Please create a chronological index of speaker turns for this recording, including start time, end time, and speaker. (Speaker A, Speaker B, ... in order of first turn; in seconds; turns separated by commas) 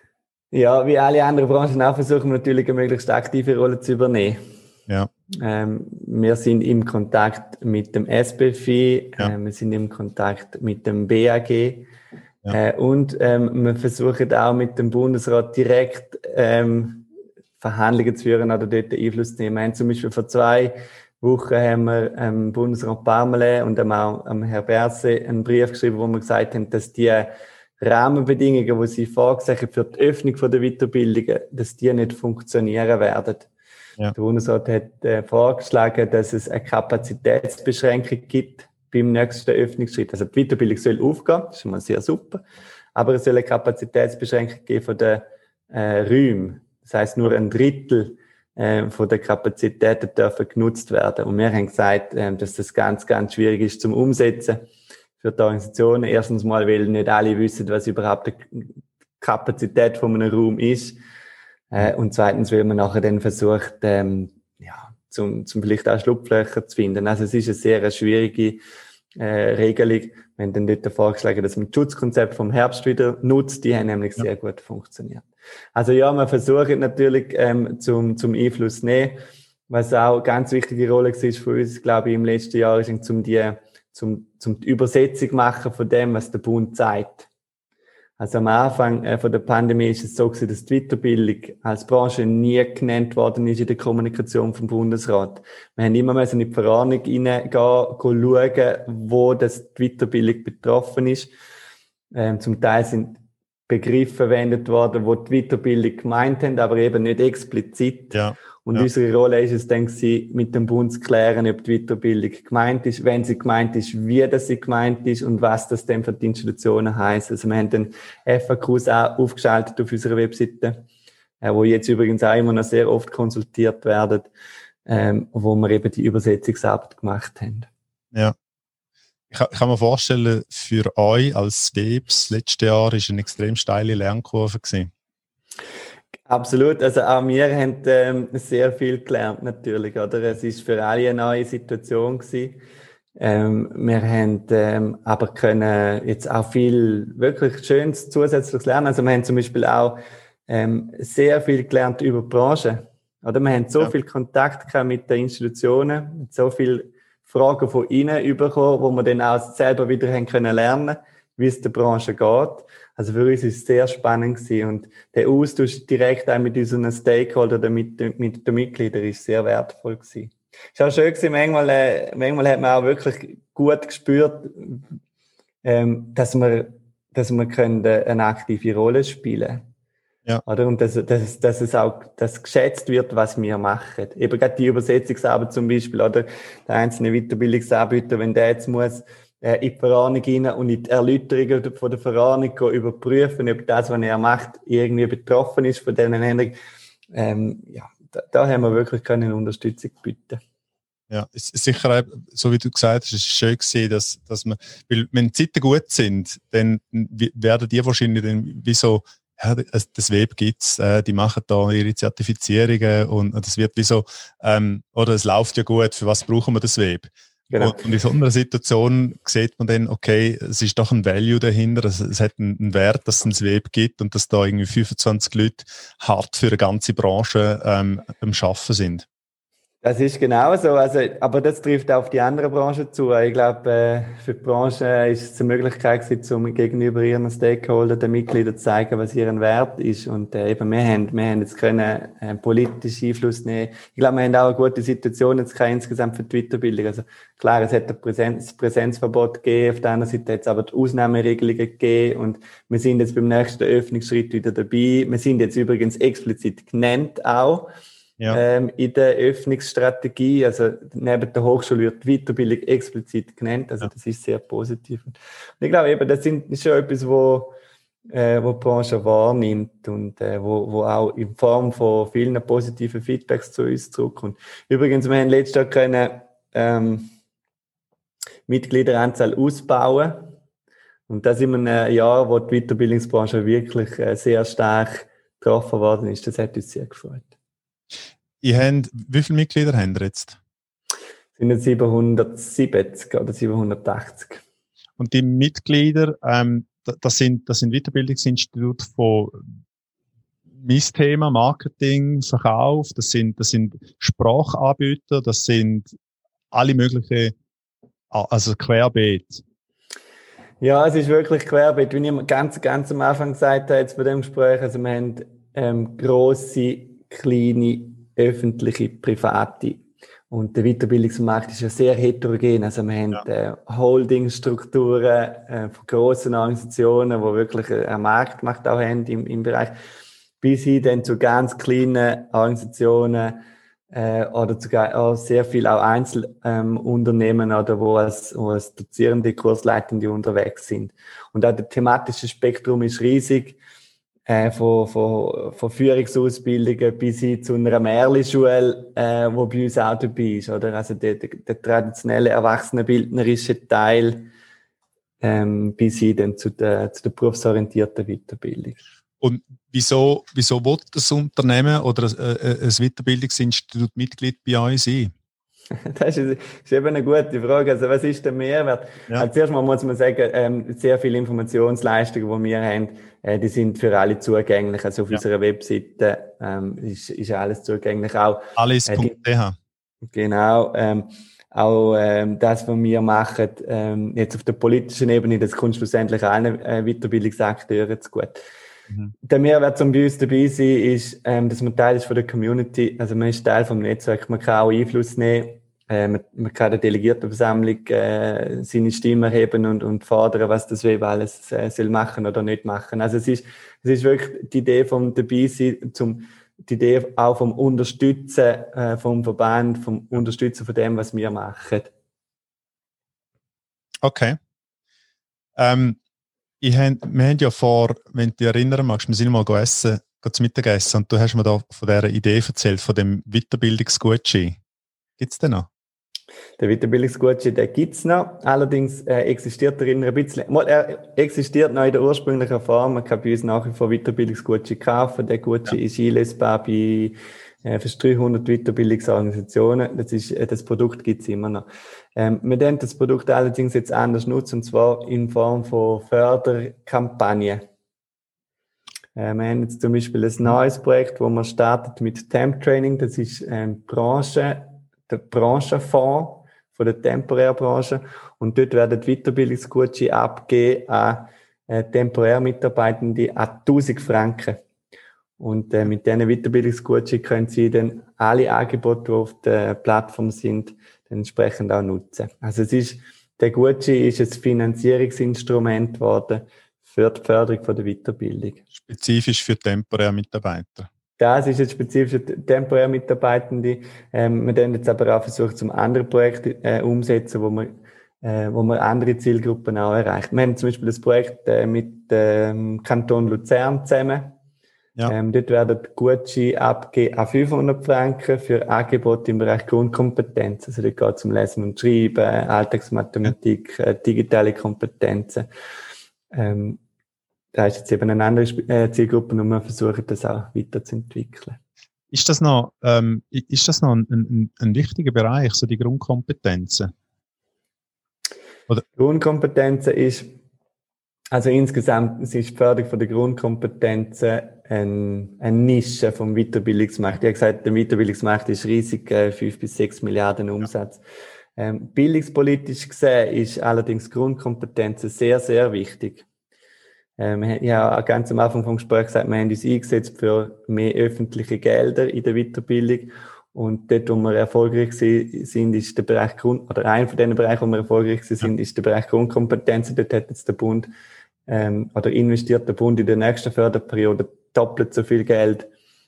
Speaker A: 0.5-4.4, Speaker A: 5.4-11.9, Speaker A: 12.5-17.1, Speaker A: 17.6-33.5, Speaker A: 34.1-42.4, Speaker A: 42.9-54.6, Speaker A: 55.2-61.0, Speaker A: 61.7-68.6, Speaker A: 69.2-79.2, Speaker A: 79.7-87.3, Speaker A: 88.2-101.3, Speaker A: 102.1-120.8, Speaker B: 108.1-108.9, Speaker A: 121.4-124.3, Speaker A: 124.9-127.7, Speaker B: 129.3-134.9, Speaker A: 136.3-142.6, Speaker A: 143.2-174.8, Speaker A: 175.6-179.7, Speaker A: 180.4-196.6, Speaker A: 197.1-200.4, Speaker B: 201.1-229.1, Speaker A: 217.5-217.9, Speaker A: 229.8-257.7, Speaker A: 258.3-267.6, Speaker A: 268.1-277.1, Speaker A: 278.5-280.3, Speaker A: 281.1-287.3, Speaker B: 288.4-290.4, Speaker A: 291.4-294.4, Speaker B: 295.0-299.4, Speaker B: 300.6-305.9, Speaker B: 306.5-307.3, Speaker B: 308.1-309.4, Speaker A: 310.6-329.7, Speaker A: 330.4-343.6, Speaker A: 344.3-354.3, Speaker A: 355.2-358.8, Speaker B: 359.2-365.1, Speaker A: 365.8-379.1, Speaker B: 378.6-379.6, Speaker A: 380.1-388.4, Speaker A: 389.2-411.9, Speaker B: 414.0-414.4, Speaker B: 415.6-416.0, Speaker B: 416.6-424.6, Speaker B: 425.2-425.7, Speaker A: 426.6-447.6, Speaker A: 449.1-464.6, Speaker A: 465.4-478.6, Speaker B: 478.8-480.9, Speaker A: 481.2-494.3, Speaker A: 495.1-505.5, Speaker A: 506.3-506.8, Speaker A: 507.5-511.6, Speaker B: 512.1-516.9, Speaker A: 519.0-520.3, Speaker A: 521.3-531.0, Speaker A: 531.6-536.2, Speaker A: 537.2-550.9, Speaker A: 551.5-555.7